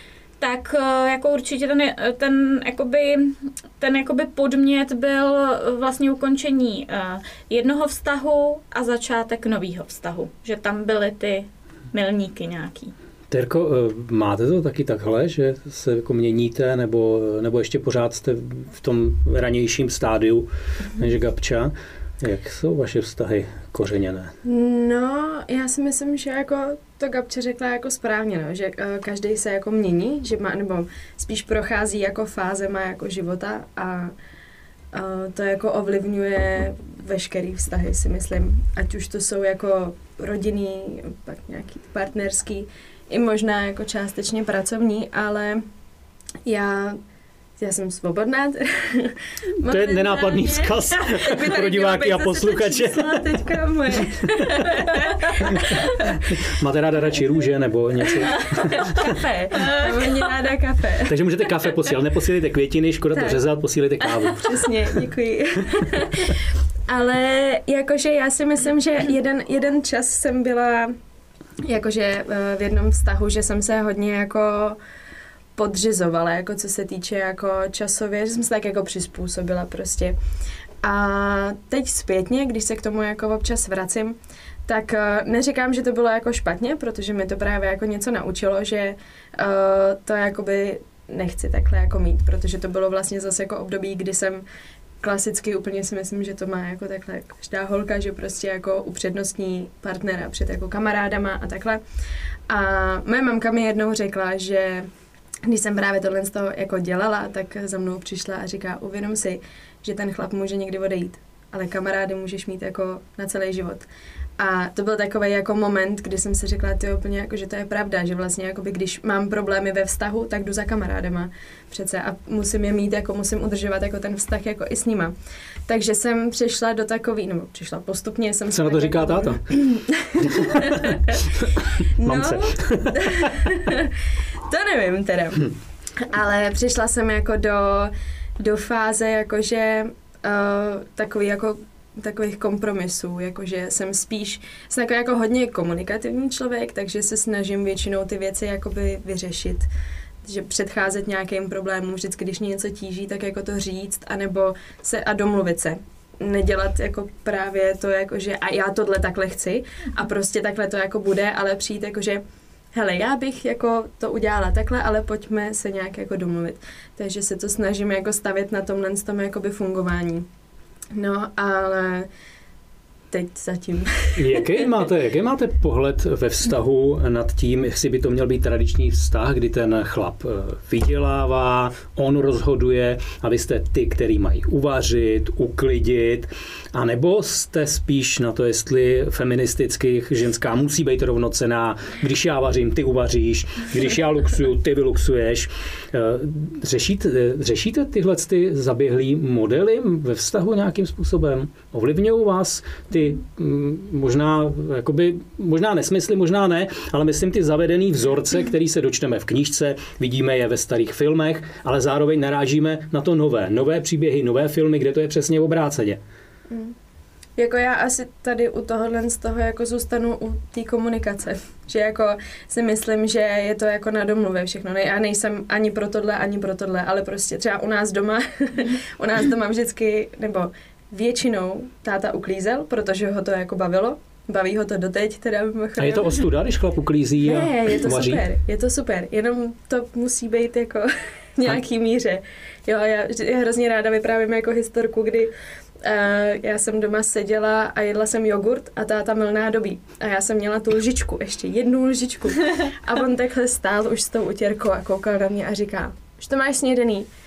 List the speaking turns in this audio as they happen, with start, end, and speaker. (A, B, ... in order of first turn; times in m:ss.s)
0:00.4-0:12.9 A
0:13.3-0:24.3 B
0:24.4-0:34.1 C
0:34.9-0:45.6 C
0:46.4-0:47.0 C
0:47.6-0:56.1 C
0:49.6-0:53.3 B
0:56.4-0:59.1 B
0:58.1-1:01.2 C
0:59.5-1:00.2 A
1:01.1-1:04.6 B
1:03.1-1:03.4 C
1:04.0-1:10.9 C
1:11.6-1:14.8 C
1:15.6-1:20.2 C
1:20.8-1:24.2 C
1:24.7-1:34.4 C
1:35.0-1:41.8 C
1:42.5-1:44.9 C
1:45.5-1:53.9 C
1:54.4-2:05.1 C
2:05.7-2:11.3 C
2:08.5-2:09.6 B
2:10.2-2:13.0 B
2:12.0-2:13.9 C
2:14.5-2:29.7 C
2:30.2-2:42.2 C
2:42.7-2:50.2 C
2:50.9-2:52.1 C
2:53.1-2:54.6 C
2:54.2-3:36.0 B
3:36.5-3:36.7 C
3:37.4-3:56.2 C
3:55.8-3:58.2 B
3:57.2-4:05.3 C
4:05.8-4:17.1 C